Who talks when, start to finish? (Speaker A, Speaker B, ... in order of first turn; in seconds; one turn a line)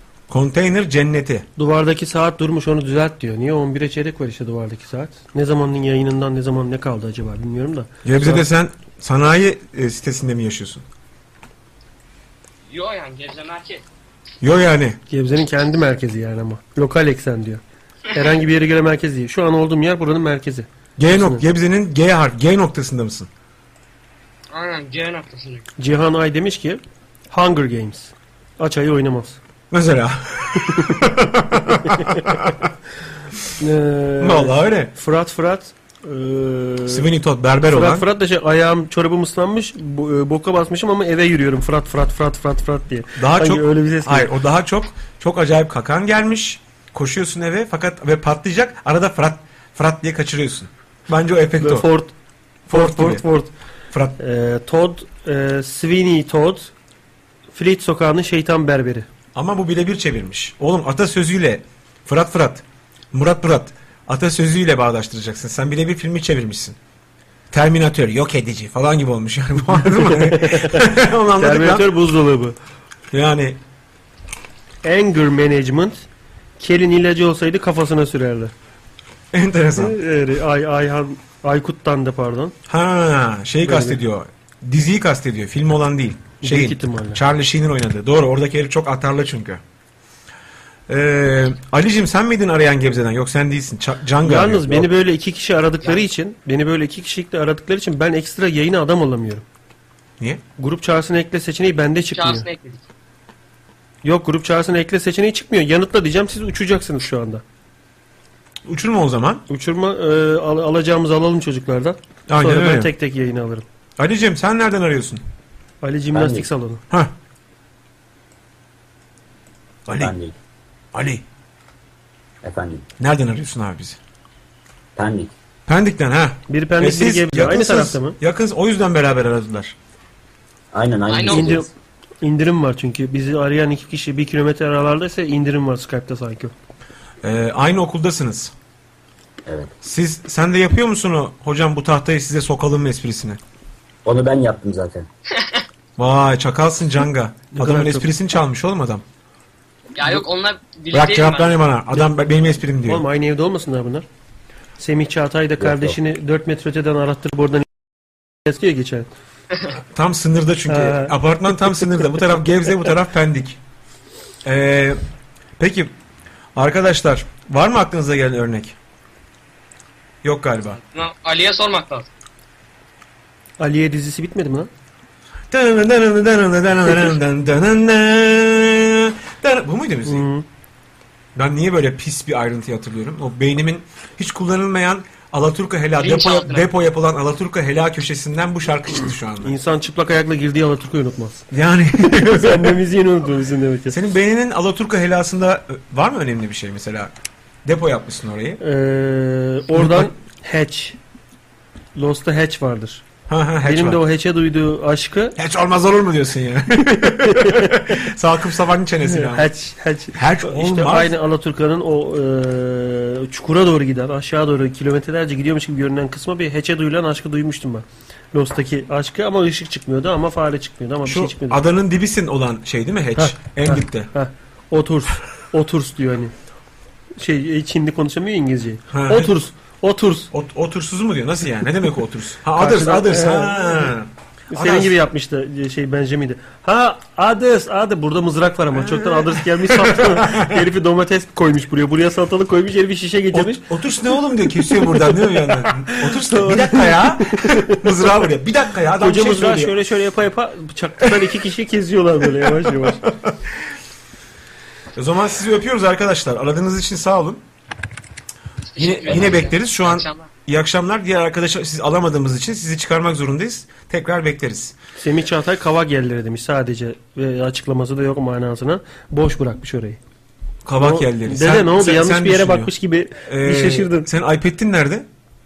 Speaker A: 0.3-1.5
Speaker B: 1.6-8.4
Speaker A: 8.0-10.8
Speaker C: 12.7-13.8
Speaker A: 14.4-15.0
Speaker B: 15.1-17.6
Speaker B: 18.1-21.5
Speaker A: 21.0-23.3
Speaker C: 24.5-25.6
Speaker B: 25.8-29.4
Speaker A: 29.7-32.7
Speaker B: 30.7-30.9
Speaker B: 31.9-32.5
Speaker B: 33.6-37.1
Speaker A: 34.2-34.9
Speaker A: 36.9-38.1
Speaker B: 37.7-44.3
Speaker A: 43.2-51.9
Speaker B: 51.6-52.1
Speaker A: 52.7-53.2
Speaker B: 52.7-53.5
Speaker A: 53.9-54.2
Speaker B: 54.2-56.7
Speaker B: 57.5-59.1
Speaker A: 59.3-66.8
Speaker A: 67.5-71.9
Speaker B: 69.7-70.8
Speaker B: 71.4-72.5
Speaker A: 73.1-73.6
Speaker B: 74.8-76.1
Speaker B: 76.6-78.5
Speaker A: 79.3-80.0
Speaker B: 79.8-82.5
Speaker A: 82.7-89.6
Speaker B: 83.6-84.0
Speaker B: 86.4-87.2
Speaker A: 90.9-94.9
Speaker B: 94.2-99.4
Speaker B: 100.6-102.5
Speaker C: 102.1-102.8
Speaker B: 104.0-107.4
Speaker A: 108.7-109.4
Speaker B: 109.5-113.7
Speaker A: 112.3-112.9
Speaker A: 114.0-115.2
Speaker B: 115.8-116.8
Speaker D: 116.1-116.5
Speaker A: 119.9-120.1
Speaker D: 119.9-120.4
Speaker A: 120.9-121.2
Speaker D: 122.4-122.9
Speaker A: 123.0-124.0
Speaker D: 125.0-125.3
Speaker A: 125.7-129.8
Speaker B: 126.5-128.2
Speaker D: 130.7-131.7
Speaker C: 131.1-131.5
Speaker B: 131.3-131.7
Speaker B: 132.2-136.5
Speaker A: 137.2-138.5
Speaker D: 139.5-139.7
Speaker A: 139.8-143.4
Speaker D: 144.1-145.1
Speaker A: 146.0-149.0
Speaker B: 147.5-148.1
Speaker C: 149.9-151.6
Speaker A: 150.9-153.0
Speaker B: 152.8-154.1
Speaker B: 154.8-157.7
Speaker D: 155.6-156.0
Speaker B: 158.4-159.1
Speaker A: 159.9-163.6
Speaker B: 160.7-162.1
Speaker A: 164.4-165.0
Speaker A: 165.6-166.0
Speaker A: 166.6-168.8
Speaker A: 170.2-170.8
Speaker C: 170.9-172.1
Speaker B: 173.6-174.7
Speaker A: 175.5-180.3
Speaker B: 180.1-180.4
Speaker A: 181.3-189.6
Speaker C: 186.0-186.7
Speaker B: 189.4-191.5
Speaker A: 191.5-192.8
Speaker B: 192.0-194.0
Speaker A: 193.9-197.1
Speaker A: 197.7-198.6
Speaker B: 198.6-201.0
Speaker A: 199.8-200.1
Speaker B: 202.0-203.0
Speaker A: 203.3-204.0
Speaker B: 203.7-205.4
Speaker A: 205.4-209.5
Speaker B: 206.8-208.0
Speaker B: 209.0-221.6
Speaker A: 210.1-211.2
Speaker A: 221.0-224.1
Speaker B: 223.2-226.3
Speaker B: 227.2-230.3
Speaker A: 228.9-229.3
Speaker A: 230.3-234.9
Speaker B: 232.6-233.9
Speaker B: 234.5-243.6
Speaker A: 238.7-240.6
Speaker A: 243.3-249.7
Speaker B: 244.8-247.9
Speaker B: 249.0-253.0
Speaker A: 252.4-253.3
Speaker A: 254.9-257.4
Speaker C: 258.7-260.3
Speaker A: 258.8-264.8
Speaker B: 265.0-270.0
Speaker A: 270.6-272.7
Speaker B: 270.8-274.1
Speaker A: 273.3-275.1